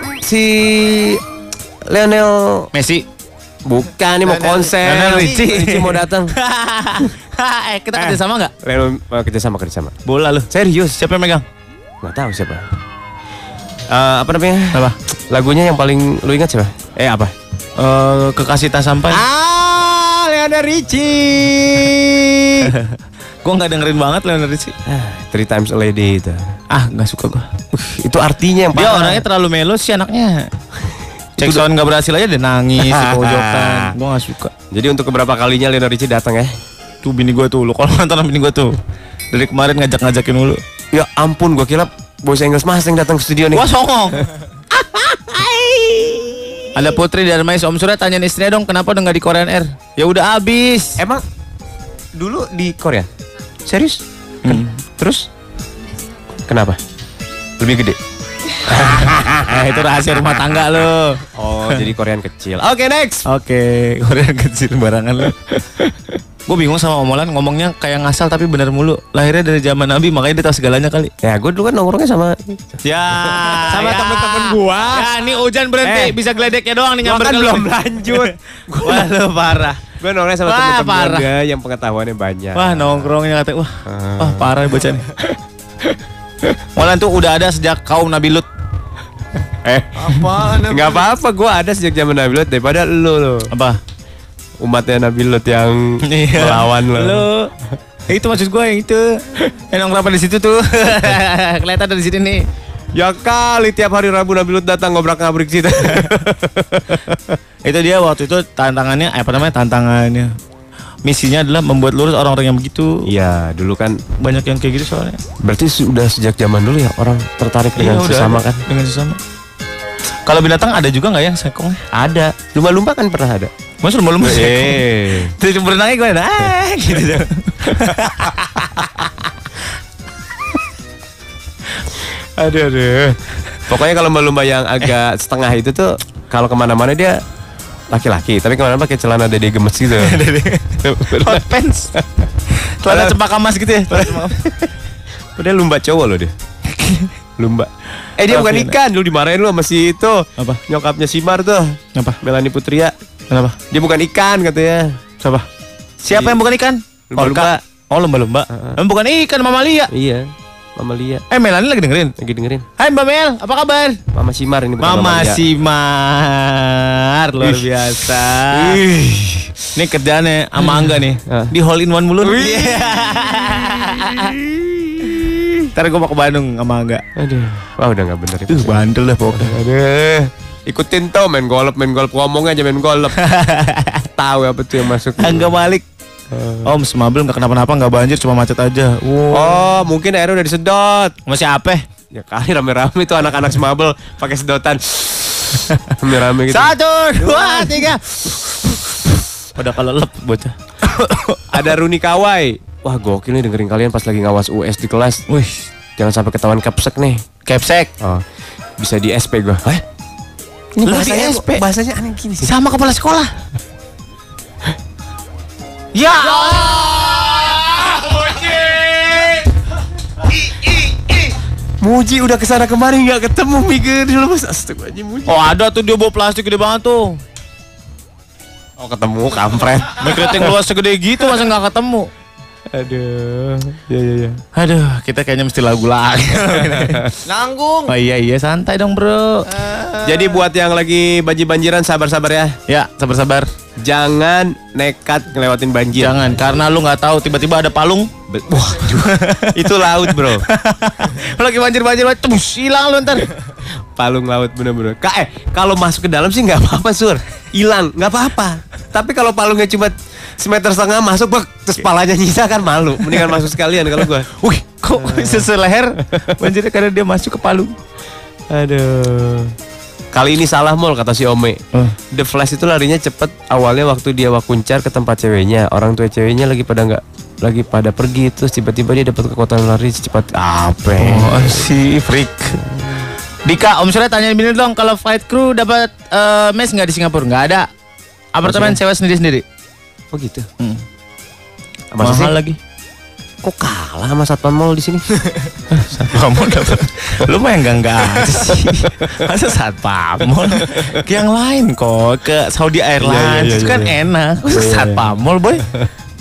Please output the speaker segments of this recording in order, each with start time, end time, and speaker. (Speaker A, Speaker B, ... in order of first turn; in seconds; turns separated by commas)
Speaker A: 0.2-1.2, Speaker A: 1.9-2.7, Speaker B: 2.7-3.1, Speaker A: 3.7-6.4, Speaker B: 4.4-8.5, Speaker A: 8.0-9.9, Speaker B: 10.1-11.4, Speaker A: 10.5-11.0, Speaker A: 12.0-12.6, Speaker A: 13.9-17.3, Speaker B: 17.8-19.3, Speaker A: 19.1-22.7, Speaker B: 22.6-24.7, Speaker A: 24.9-26.4, Speaker B: 26.7-27.5, Speaker A: 27.7-29.2, Speaker B: 28.7-30.4, Speaker A: 31.4-31.6, Speaker B: 31.4-34.5, Speaker A: 32.8-34.0, Speaker A: 34.7-36.5, Speaker B: 37.0-38.7, Speaker B: 39.3-40.6, Speaker A: 40.9-43.7, Speaker B: 43.5-44.2, Speaker A: 44.7-46.7, Speaker B: 46.8-51.0, Speaker A: 51.0-51.2, Speaker A: 52.2-53.1, Speaker A: 53.7-55.2, Speaker B: 54.5-54.7, Speaker A: 56.5-56.8, Speaker A: 57.6-58.0, Speaker A: 58.6-59.5, Speaker B: 58.7-61.9, Speaker A: 61.4-63.3, Speaker B: 63.3-65.3, Speaker A: 65.7-66.2, Speaker B: 66.5-71.1, Speaker A: 71.2-75.1, Speaker B: 72.8-79.8, Speaker A: 75.8-76.2, Speaker A: 77.0-79.1, Speaker A: 79.9-83.1, Speaker B: 80.5-81.3, Speaker B: 82.5-85.1, Speaker A: 83.9-84.5, Speaker B: 86.8-88.5, Speaker A: 89.6-93.5, Speaker B: 90.1-90.6, Speaker B: 93.5-93.8, Speaker A: 94.6-97.3, Speaker B: 96.0-97.5, Speaker B: 98.1-102.4, Speaker A: 103.0-107.4, Speaker B: 105.9-106.1, Speaker B: 107.7-110.3, Speaker B: 111.0-113.0, Speaker A: 113.0-114.0, Speaker B: 114.2-115.2, Speaker A: 115.4-118.7, Speaker B: 117.8-119.2, Speaker B: 120.2-121.8, Speaker A: 121.9-123.5, Speaker B: 123.8-129.3, Speaker A: 124.2-125.3, Speaker A: 131.9-137.2, Speaker A: 137.9-140.2, Speaker B: 139.9-141.9, Speaker A: 140.8-142.3, Speaker B: 142.5-144.7, Speaker A: 142.9-143.2, Speaker A: 143.9-144.3, Speaker A: 145.4-146.3, Speaker B: 146.7-147.1, Speaker A: 147.4-152.9, Speaker B: 148.3-148.8, Speaker B: 153.3-153.6, Speaker A: 153.7-155.0, Speaker B: 155.2-155.5, Speaker A: 156.0-156.4, Speaker B: 156.1-159.9, Speaker A: 157.1-157.6, Speaker A: 158.5-158.8, Speaker A: 159.9-161.2, Speaker B: 161.3-162.2, Speaker A: 162.2-162.7, Speaker B: 162.8-164.0, Speaker A: 164.1-165.5, Speaker B: 164.8-168.8, Speaker A: 167.4-169.6, Speaker B: 169.8-174.4, Speaker A: 170.6-171.5, Speaker A: 172.2-175.6, Speaker B: 175.0-177.0, Speaker A: 177.2-183.2, Speaker B: 178.5-179.5, Speaker B: 183.2-184.1, Speaker A: 184.2-185.6, Speaker B: 185.2-185.8, Speaker A: 186.3-186.7, Speaker B: 186.7-189.7, Speaker A: 189.3-191.2, Speaker B: 191.3-191.8, Speaker A: 192.1-197.9, Speaker B: 195.7-199.0, Speaker B: 199.6-201.6, Speaker A: 201.5-205.2, Speaker B: 205.3-205.7, Speaker A: 206.0-207.2, Speaker B: 207.5-207.9, Speaker A: 208.8-209.8, Speaker A: 210.8-212.5, Speaker B: 210.8-211.6, Speaker B: 212.4-213.3, Speaker B: 215.9-217.9, Speaker A: 216.4-219.5, Speaker A: 220.2-225.5, Speaker B: 225.3-227.2, Speaker A: 228.8-230.5, Speaker B: 229.9-232.1, Speaker A: 232.7-234.4, Speaker B: 234.5-237.1, Speaker A: 236.6-237.7, Speaker B: 237.8-239.9, Speaker A: 240.0-242.5, Speaker B: 242.7-243.5, Speaker A: 243.8-246.4, Speaker B: 245.9-248.1, Speaker A: 248.3-250.4, Speaker B: 248.9-253.3, Speaker A: 253.9-264.3, Speaker B: 264.3-267.7, Speaker A: 264.9-265.5, Speaker A: 266.1-266.4, Speaker A: 268.5-269.5, Speaker A: 270.1-271.6, Speaker A: 272.1-281.7, Speaker B: 280.9-282.5, Speaker B: 283.4-287.7, Speaker B: 288.3-289.4, Speaker A: 288.4-288.8, Speaker A: 290.1-290.5, Speaker A: 291.9-292.4, Speaker B: 292.0-292.6, Speaker A: 293.4-295.0, Speaker B: 295.7-305.6, Speaker A: 298.1-299.2, Speaker A: 300.4-301.1, Speaker A: 303.0-304.0, Speaker A: 304.5-305.1